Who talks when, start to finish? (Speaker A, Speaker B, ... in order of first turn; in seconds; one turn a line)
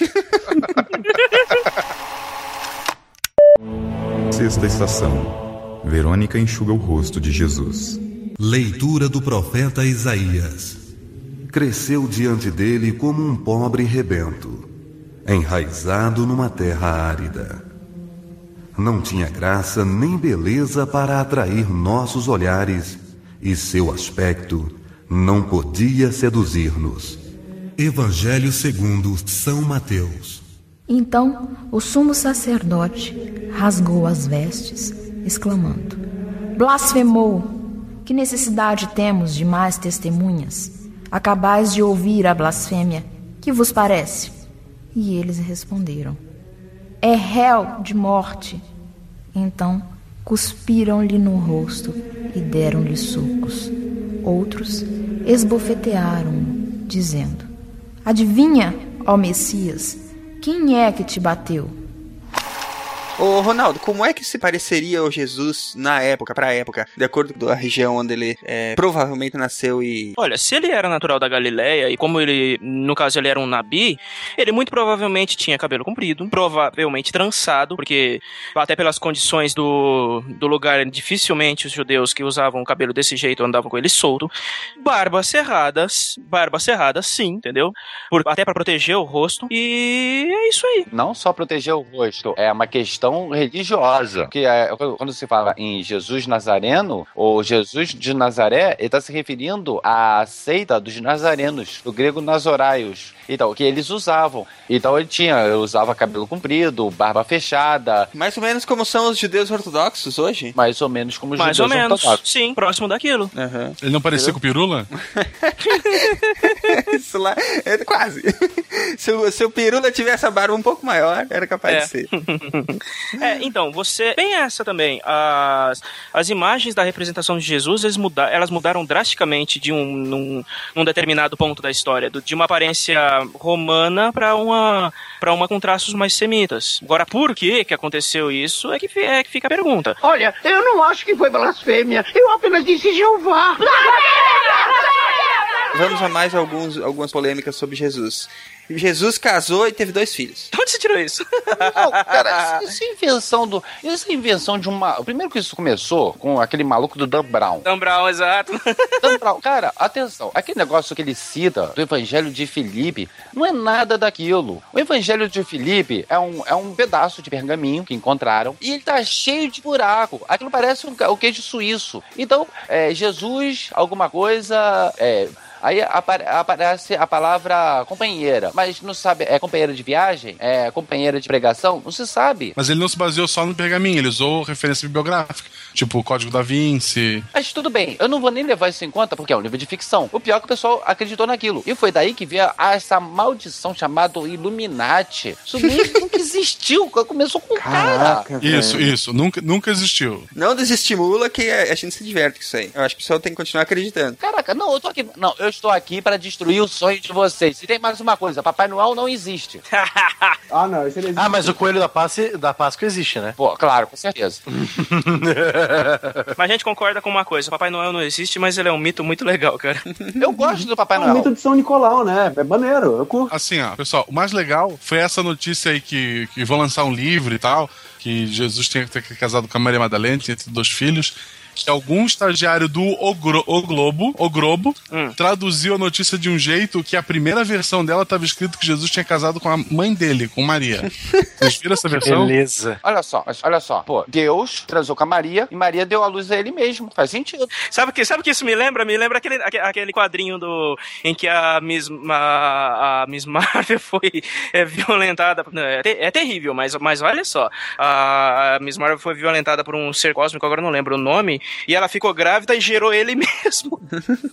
Speaker A: 1.0-1.5
Speaker B: 4.3-8.0
Speaker C: 8.4-10.8
Speaker C: 11.5-14.7
Speaker C: 15.2-17.6
Speaker C: 18.8-27.2
Speaker C: 27.8-30.4
Speaker D: 30.9-36.0
Speaker D: 36.5-37.5
Speaker D: 38.0-44.4
Speaker D: 44.9-46.2
Speaker D: 47.0-48.6
Speaker D: 49.3-57.5
Speaker D: 58.0-61.8
Speaker E: 63.2-70.1
Speaker A: 70.2-90.9
Speaker F: 90.9-108.1
Speaker E: 108.1-110.5
Speaker F: 110.5-112.2
Speaker A: 111.4-113.3
Speaker E: 113.3-113.8
Speaker G: 113.8-114.9
Speaker E: 115.0-116.1
Speaker A: 115.6-116.7
Speaker E: 116.7-122.1
Speaker A: 121.7-140.0
Speaker H: 140.0-144.2
Speaker E: 145.7-150.5
Speaker A: 150.5-152.6
Speaker F: 151.5-157.7
Speaker A: 157.6-159.2
Speaker F: 159.0-182.5
Speaker G: 182.6-187.3
Speaker F: 187.3-198.2
Speaker I: 197.5-198.9
Speaker G: 198.4-200.3
Speaker E: 200.3-204.2
Speaker F: 204.2-209.6
Speaker A: 209.7-210.4
Speaker I: 210.5-211.6
Speaker J: 211.2-213.3
Speaker F: 213.4-214.4
Speaker J: 214.5-216.3
Speaker A: 216.3-219.8
Speaker F: 220.2-221.3
Speaker I: 220.9-223.3
Speaker G: 223.3-242.3
Speaker A: 234.9-235.2
Speaker J: 241.9-242.8
Speaker F: 242.8-247.5
Speaker A: 247.6-263.8